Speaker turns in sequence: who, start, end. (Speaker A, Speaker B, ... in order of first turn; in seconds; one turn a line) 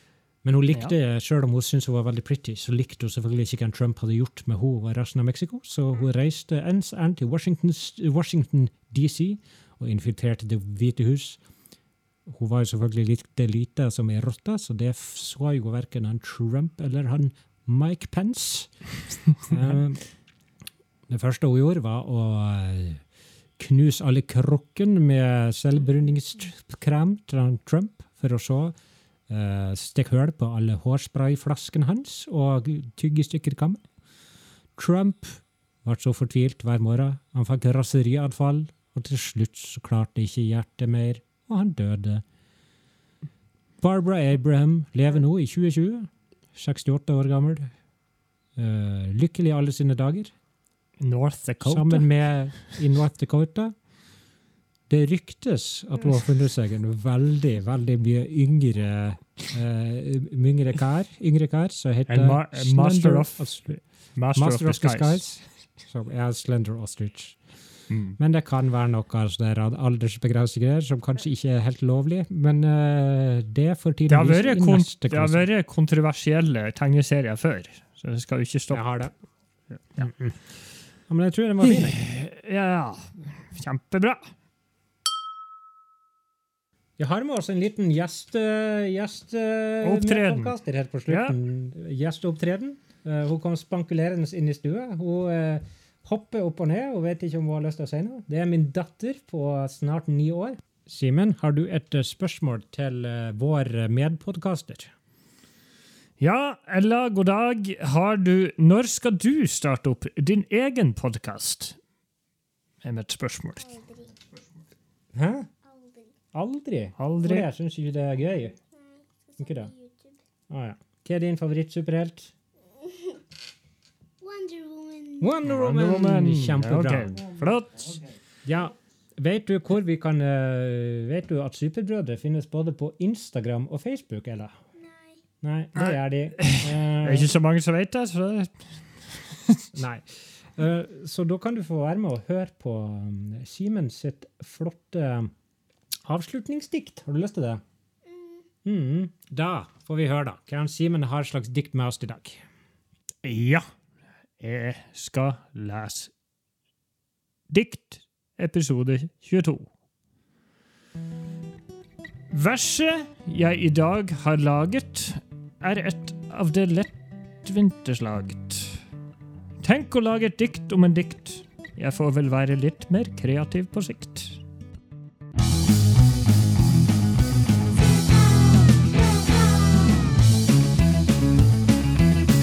Speaker A: 0.4-11.4
Speaker A: 12.2-18.8
Speaker A: 19.4-20.1
Speaker A: 21.1-23.0
Speaker A: 23.6-28.8
Speaker A: 29.3-33.8
Speaker A: 34.8-42.2
Speaker A: 43.8-47.7
Speaker A: 48.5-50.3
Speaker B: 51.0-52.1
Speaker A: 51.6-53.7
Speaker A: 54.9-63.8
Speaker B: 62.1-65.2
Speaker A: 64.3-67.4
Speaker B: 67.9-68.2
Speaker A: 68.2-75.5
Speaker B: 74.1-78.8
Speaker A: 78.7-79.1
Speaker B: 79.7-80.1
Speaker A: 80.0-80.4
Speaker A: 81.1-82.0
Speaker B: 81.6-84.3
Speaker A: 87.0-104.9
Speaker B: 89.8-90.5
Speaker B: 91.1-91.3
Speaker B: 106.2-111.8
Speaker B: 112.8-113.8
Speaker C: 113.6-114.1
Speaker A: 115.1-115.5
Speaker C: 115.7-116.1
Speaker A: 116.3-118.5
Speaker B: 117.0-117.5
Speaker C: 118.8-120.2
Speaker A: 119.4-119.7
Speaker A: 120.5-122.3
Speaker C: 124.2-125.3
Speaker A: 125.2-127.2
Speaker B: 125.4-128.0
Speaker A: 128.4-134.6
Speaker C: 134.8-135.2
Speaker A: 135.4-137.3
Speaker B: 135.8-139.7
Speaker A: 139.7-145.3
Speaker A: 146.0-147.6
Speaker A: 148.6-152.4
Speaker B: 153.2-153.6
Speaker B: 154.4-156.1
Speaker B: 157.5-159.7
Speaker B: 162.3-168.8
Speaker B: 169.6-174.4